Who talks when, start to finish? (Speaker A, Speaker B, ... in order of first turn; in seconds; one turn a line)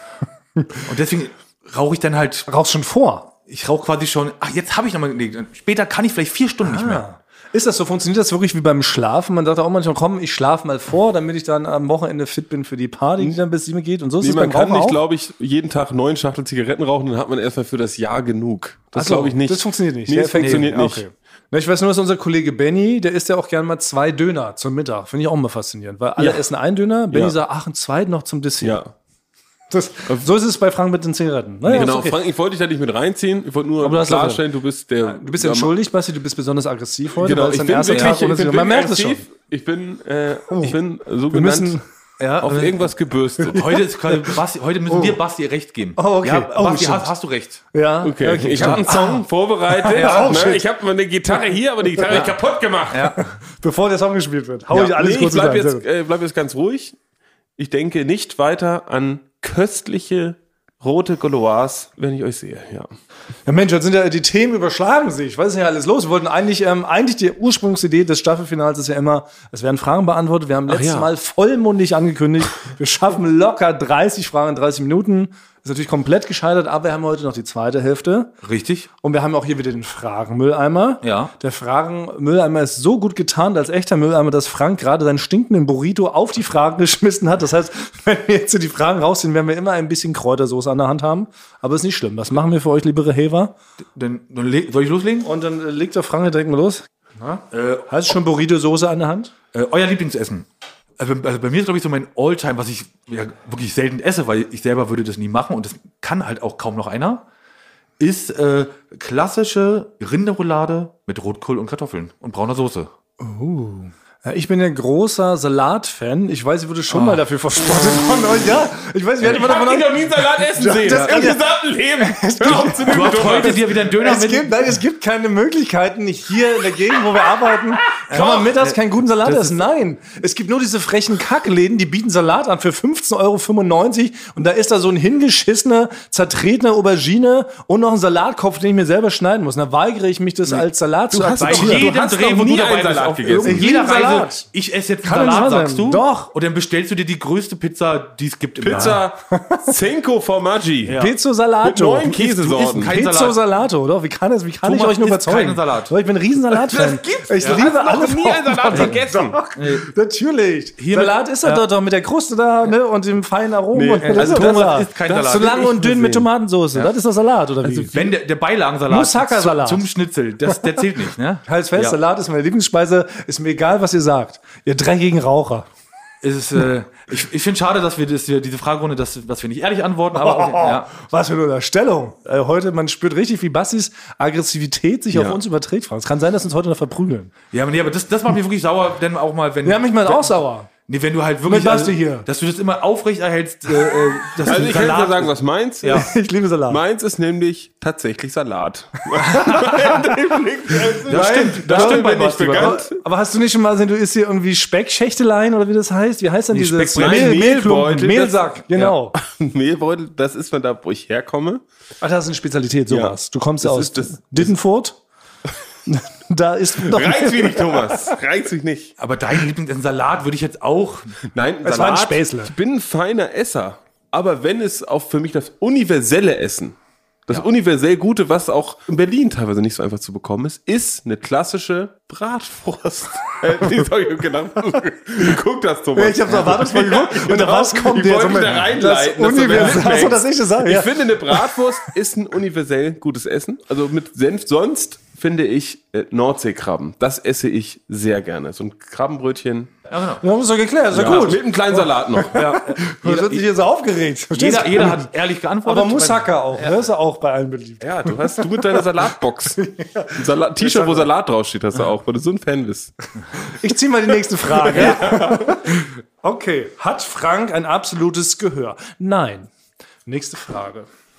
Speaker A: 0.8-2.5
Speaker B: 2.5-3.3
Speaker A: 3.5-7.0
Speaker B: 6.6-15.0
Speaker C: 14.2-21.1
Speaker B: 18.9-28.8
Speaker A: 20.4-20.8
Speaker C: 26.2-26.4
Speaker C: 27.1-27.4
Speaker C: 28.6-28.9
Speaker B: 29.7-32.2
Speaker C: 31.7-35.7
Speaker B: 33.8-34.4
Speaker B: 35.0-39.2
Speaker C: 37.2-41.8
Speaker A: 37.9-38.2
Speaker B: 40.5-40.8
Speaker B: 41.3-41.8
Speaker A: 42.2-42.9
Speaker C: 42.4-43.8
Speaker B: 43.4-44.4
Speaker A: 43.5-47.6
Speaker B: 44.9-45.2
Speaker B: 46.0-47.1
Speaker B: 47.7-49.2
Speaker C: 48.0-53.2
Speaker A: 48.6-49.1
Speaker B: 49.8-50.6
Speaker A: 49.9-50.4
Speaker B: 52.0-52.2
Speaker A: 52.1-52.4
Speaker A: 52.9-53.3
Speaker B: 53.2-55.8
Speaker C: 54.7-57.0
Speaker C: 57.6-62.9
Speaker B: 63.5-78.3
Speaker C: 70.7-71.1
Speaker A: 78.4-78.9
Speaker B: 79.0-93.5
Speaker A: 81.0-81.3
Speaker A: 94.0-95.3
Speaker B: 95.2-99.3
Speaker A: 97.5-97.9
Speaker A: 99.5-100.5
Speaker A: 101.0-107.2
Speaker A: 108.0-112.9
Speaker B: 113.2-121.4
Speaker A: 116.9-117.2
Speaker C: 119.2-123.8
Speaker A: 120.8-121.4
Speaker B: 122.0-141.9
Speaker A: 122.8-124.5
Speaker A: 128.1-129.7
Speaker C: 140.5-143.7
Speaker A: 141.4-149.0
Speaker B: 143.3-144.5
Speaker B: 145.0-146.3
Speaker C: 148.6-151.0
Speaker B: 148.7-149.8
Speaker A: 150.8-151.1
Speaker B: 150.9-168.1
Speaker C: 151.6-152.9
Speaker A: 152.6-153.4
Speaker A: 154.6-155.9
Speaker C: 156.5-159.4
Speaker A: 158.7-159.0
Speaker A: 159.6-159.9
Speaker A: 160.8-161.6
Speaker C: 163.7-166.1
Speaker A: 164.1-166.2
Speaker A: 167.6-172.0
Speaker B: 168.9-169.9
Speaker B: 171.5-175.7
Speaker A: 176.2-180.9
Speaker B: 180.1-187.3
Speaker C: 185.1-185.4
Speaker A: 187.5-196.1
Speaker B: 189.7-190.7
Speaker B: 191.4-192.3
Speaker B: 193.9-194.6
Speaker C: 194.4-196.1
Speaker B: 195.9-196.8
Speaker C: 196.7-203.0
Speaker B: 199.2-209.2
Speaker A: 199.3-199.5
Speaker A: 201.1-202.8
Speaker C: 206.5-208.5
Speaker A: 206.7-207.4
Speaker C: 209.1-211.6
Speaker B: 212.0-215.0
Speaker C: 212.9-214.6
Speaker B: 215.9-218.2
Speaker C: 216.8-218.9
Speaker A: 219.0-221.2
Speaker C: 221.3-226.8
Speaker B: 221.6-222.5
Speaker C: 227.3-249.7
Speaker B: 236.0-241.6
Speaker A: 249.9-250.3
Speaker B: 250.2-255.1
Speaker C: 250.9-252.5
Speaker A: 252.3-253.5
Speaker A: 254.3-256.8
Speaker B: 255.7-259.1
Speaker C: 257.8-262.9
Speaker B: 259.6-261.1
Speaker B: 263.4-269.5
Speaker C: 264.6-265.6
Speaker B: 270.1-270.9